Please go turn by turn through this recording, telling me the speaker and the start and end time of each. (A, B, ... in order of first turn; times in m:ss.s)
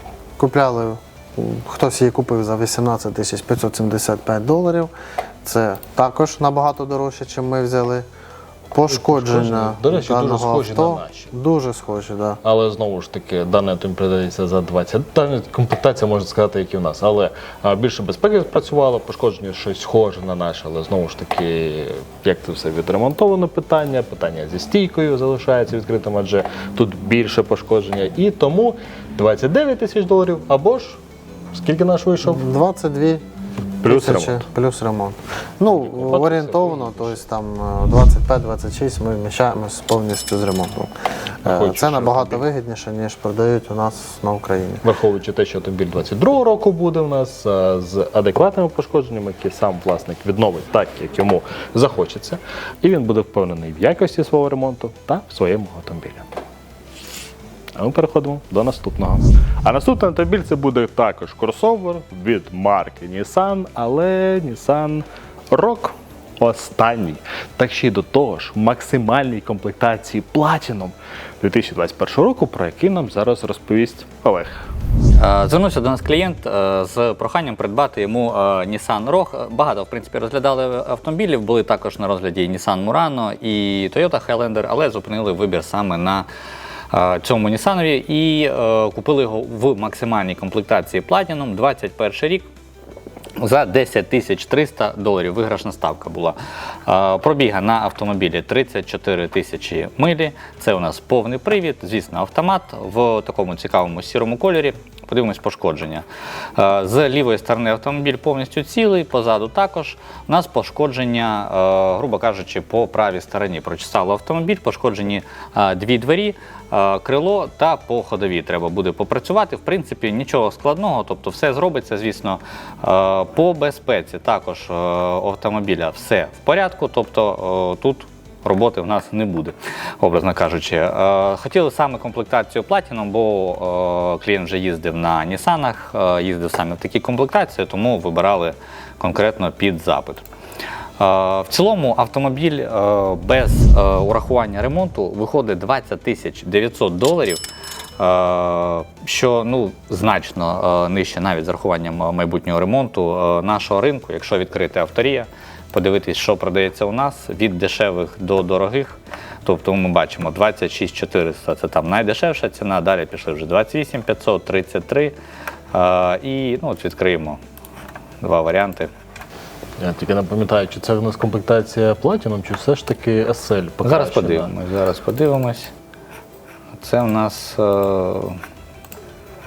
0:00.4-0:04.9 A
0:05.4-0:08.1 A
0:08.7-0:12.4 A
0:08.9-0:11.3 B
0:12.4-0:31.0 B
0:31.5-0:32.4 B
0:32.2-0:33.2 A
0:33.8-0:34.4 B
0:33.8-0:40.9 A
0:35.8-0:37.2 B
0:41.4-0:44.8 A
0:41.5-0:42.4 B
0:44.8-0:56.3 B
0:57.8-1:14.7 B
1:15.2-1:26.3 C
1:26.9-1:32.5 C
1:33.4-2:20.2 C
2:21.0-2:27.4 C
2:28.0-2:45.2 C
2:45.7-2:47.4 C
2:48.2-2:48.9 C
2:49.8-2:54.5 B
2:53.8-2:55.7 C
2:56.8-2:58.4 C